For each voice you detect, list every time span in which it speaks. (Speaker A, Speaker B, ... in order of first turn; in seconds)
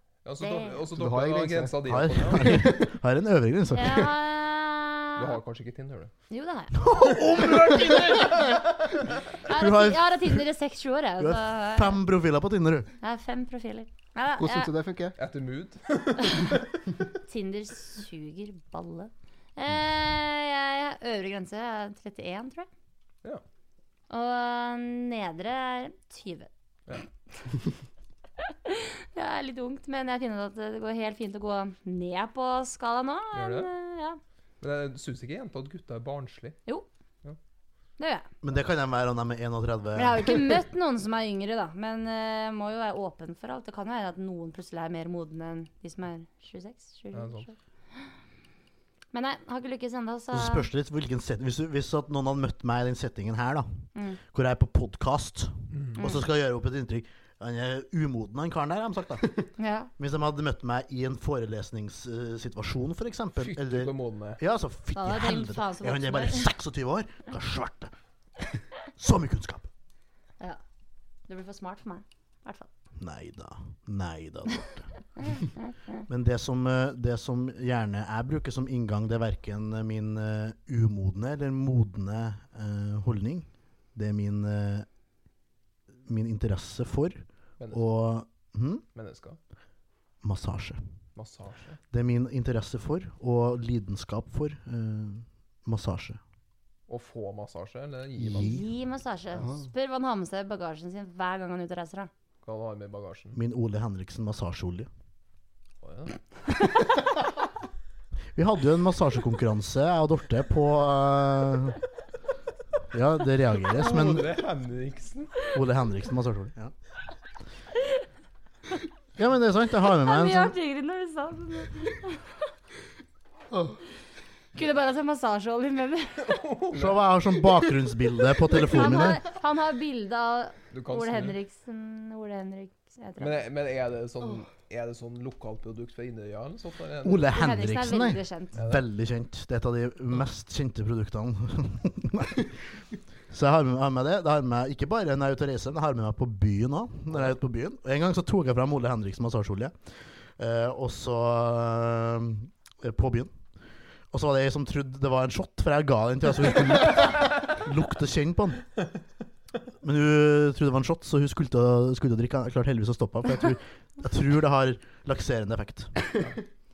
Speaker A: 0.2-2.6, 5.2-6.1, 15.2-16.8, 33.3-33.7, 34.6-36.6, 47.1-47.5, 55.7-56.0, 63.4-64.4, 87.6-87.8, 89.0-89.4, 91.2-91.8, 96.9-98.6, 102.4-103.4, 105.8-106.2, 113.7-115.5, 126.2-127.0, 130.7-131.4, 133.2-137.3, 138.6-138.8
Speaker B: 0.4-0.8, 3.7-5.4, 6.3-6.8, 9.4-12.0, 13.0-14.7, 17.3-22.7, 24.1-26.5, 28.5-34.2, 38.0-38.3, 40.0-47.5, 49.1-50.7, 59.6-59.9, 65.0-66.5, 71.3-72.7, 98.3-102.1, 120.0-122.2, 124.5-126.3, 128.5-133.4, 137.3-138.5
Speaker C: 0.9-1.8, 2.3-2.6, 14.4-15.2, 123.5-123.8
Speaker D: 1.9-4.1, 6.7-8.8, 9.5-10.4, 11.2-12.9, 38.4-40.5, 50.3-53.7, 54.3-59.3, 60.0-67.9, 69.0-69.7, 73.0-74.9, 76.1-84.9, 86.1-88.8, 90.2-90.8, 91.9-96.2, 98.2-98.6, 103.3-104.9, 108.3-111.8, 112.9-114.4, 115.5-116.7, 119.2-120.5, 126.7-129.2, 137.0-142.6, 143.3-149.8, 150.4-153.3, 154.1-158.6, 159.8-166.0